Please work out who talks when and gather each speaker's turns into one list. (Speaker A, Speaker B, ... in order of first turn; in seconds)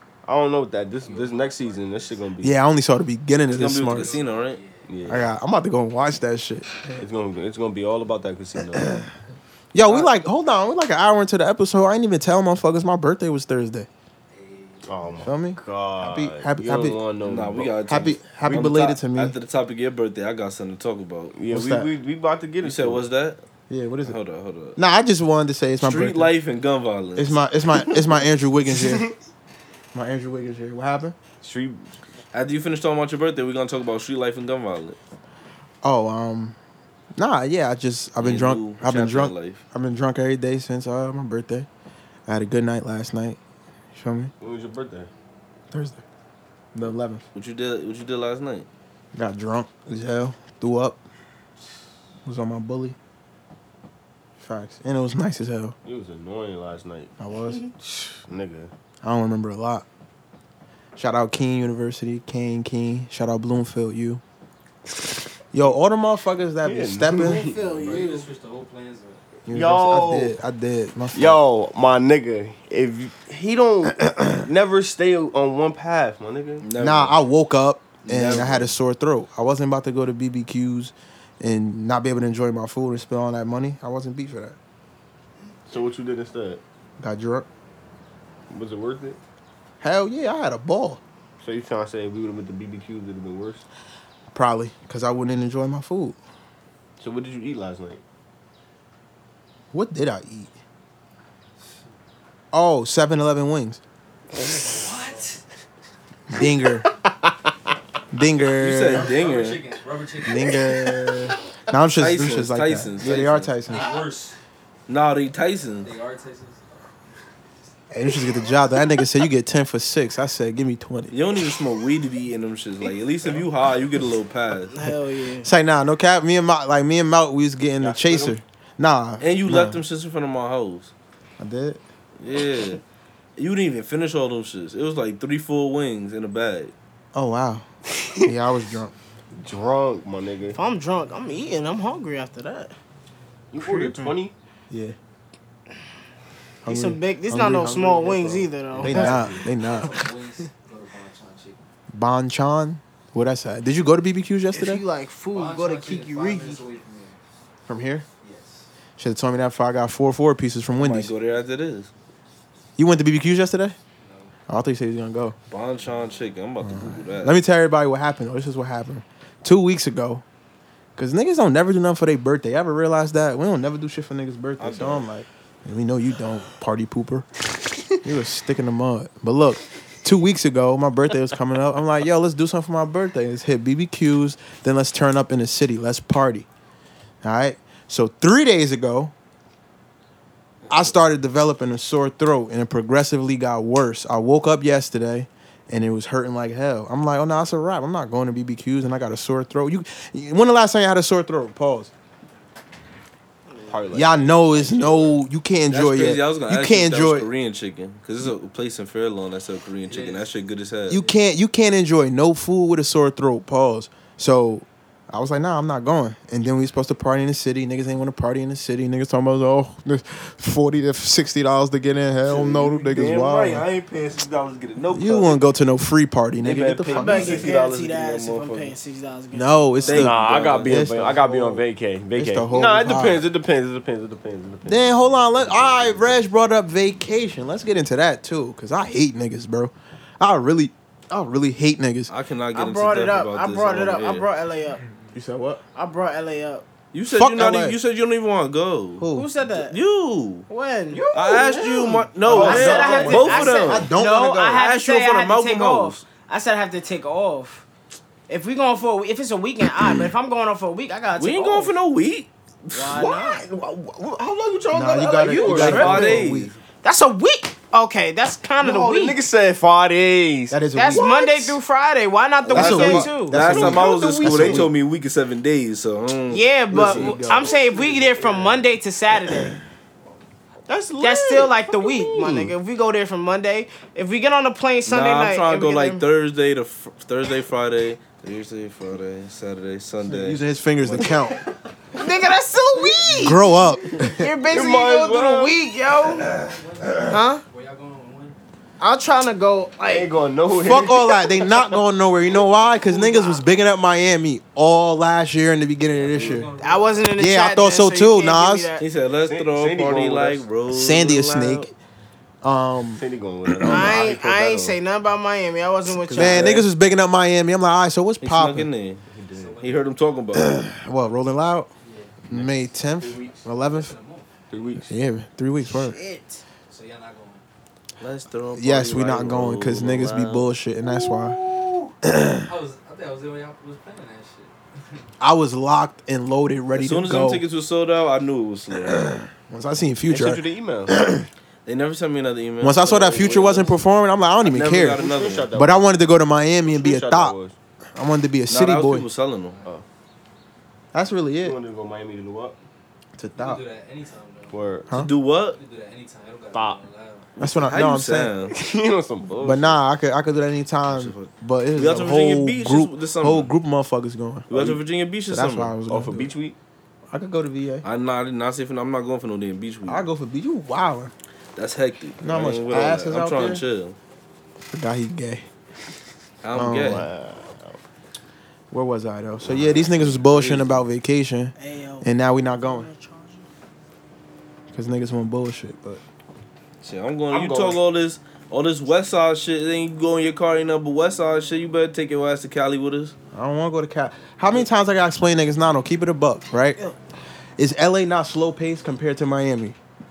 Speaker A: 0.2-2.5, 4.9-5.3, 7.0-9.0, 14.8-17.8, 18.4-18.7, 21.3-23.1, 28.7-29.1, 31.4-31.9, 44.4-45.1, 55.9-57.1, 57.8-58.7, 66.6-68.0, 69.5-70.3, 71.1-76.7, 78.1-78.6, 85.7-86.6, 88.5-89.2, 91.4-93.7, 97.0-98.0, 104.4-104.9, 127.8-128.4, 139.3-140.6, 143.5-144.3, 148.7-149.4, 203.7-205.2, 222.3-223.6, 229.9-236.3, 250.9-253.1, 262.9-266.2, 268.6-271.1, 272.5-274.7, 276.8-278.6, 280.7-282.5, 290.9-291.5, 294.5-295.6, 299.9-301.1, 306.1-306.5, 309.2-310.5, 313.0-314.8, 319.1-319.6, 322.3-323.5, 324.5-324.9, 330.9-331.9, 340.1-340.9, 343.0-343.8, 344.8-345.9, 346.6-347.6, 351.4-352.6, 354.5-354.9, 356.5-356.8, 358.5-359.8, 364.5-364.8, 365.9-366.6, 376.8-377.8, 379.5-380.4, 387.3-387.8
Speaker B: 1.0-2.3, 3.7-5.1, 14.3-15.3, 67.8-69.2, 104.6-105.4, 109.0-111.3, 113.7-114.4, 115.8-116.6, 149.4-151.6, 155.3-157.2, 158.2-158.7, 164.0-164.3, 209.9-210.4, 296.3-298.4, 306.0-307.1, 319.3-319.9, 321.8-322.2, 323.7-324.3, 326.7-327.4, 332.4-335.0, 353.4-354.8, 355.4-357.3
Speaker C: 2.4-4.2, 5.1-7.0, 8.7-9.1, 9.7-13.9, 15.2-17.0, 17.9-19.4, 21.5-21.9, 23.7-24.2, 24.8-26.3, 27.2-29.1, 29.9-31.1, 35.8-36.6, 37.2-41.7, 42.3-43.4, 43.9-44.3, 45.7-46.0, 46.7-47.2, 49.1-51.0, 52.2-53.0, 54.4-55.8, 57.2-57.7, 59.0-59.9, 61.0-64.2, 65.5-67.5, 69.5-71.4, 73.9-74.5, 76.8-84.6, 87.0-87.5, 89.8-91.0, 94.3-96.2, 99.7-100.5, 102.5-103.8, 106.3-106.9, 108.1-109.1, 110.2-113.9, 117.9-121.2, 125.4-129.8, 131.4-131.8, 137.1-137.7, 138.2-138.9, 144.7-145.0, 146.7-150.1, 151.9-154.8, 157.7-158.1, 159.0-161.1, 162.8-163.8, 164.5-165.3, 166.6-170.2, 171.0-177.3, 178.0-186.5, 187.2-189.1, 190.7-201.9, 203.9-207.3, 210.9-223.7, 224.9-227.5, 229.3-231.6, 232.2-233.3, 234.7-242.1, 245.1-245.6, 247.1-247.8, 249.0-249.3, 252.2-254.6, 264.7-266.5, 270.5-271.6, 272.5-274.7, 276.7-277.5, 290.1-291.4, 293.1-294.3, 300.6-306.5, 307.2-308.7, 310.7-311.7, 312.4-314.0, 316.0-318.7, 320.3-321.7, 322.3-323.9, 324.9-326.0, 328.6-331.4, 332.1-332.5, 335.2-337.4, 338.9-341.3, 342.6-347.4, 347.9-349.1, 350.9-351.6, 353.2-353.6, 357.4-358.3, 359.4-364.5, 365.3-366.3, 367.1-367.9, 369.9-371.1, 372.2-373.6, 374.7-375.5, 376.5-377.1, 378.7-382.9, 384.7-386.0, 393.3-396.8, 397.6-399.8
Speaker D: 3.5-4.6, 17.2-21.4, 22.6-23.4, 24.0-24.8, 25.8-27.4, 32.3-35.0, 38.2-39.6, 47.4-48.7, 76.6-77.2, 78.0-78.7, 108.6-109.6, 112.0-113.5, 114.9-115.9, 121.1-124.8, 129.2-130.9, 132.2-132.8, 133.4-136.7, 160.8-161.9, 165.5-167.4, 174.6-175.1, 205.7-211.0, 222.3-225.4, 226.4-228.7, 229.8-231.2, 242.1-244.3, 246.9-250.5, 251.1-253.9, 254.5-256.0, 261.2-262.9, 265.4-266.5, 272.6-277.0, 284.9-290.4, 308.8-311.7, 316.1-316.6, 318.2-319.1, 319.6-320.6, 328.0-330.5, 336.8-339.1, 341.7-343.7, 344.4-345.5, 348.5-349.6, 354.9-355.6, 357.4-358.6, 360.9-363.5, 364.5-365.8, 367.8-370.1, 371.6-374.0, 376.4-377.1, 379.8-380.7, 386.8-393.1
Speaker E: 67.2-68.3, 124.7-125.5, 140.6-142.8, 146.7-149.2, 154.5-156.6, 226.9-230.0, 242.5-244.8, 245.8-246.7, 249.1-249.8, 250.5-251.0, 252.3-257.6, 258.3-261.7, 262.7-263.4, 265.3-266.2, 266.8-269.2, 270.8-273.4, 276.3-279.6, 281.0-286.1, 291.9-293.5, 294.0-296.3, 297.0-297.4, 298.8-300.1, 302.8-303.4, 306.6-308.8, 313.7-316.6, 325.6-326.4, 381.6-383.5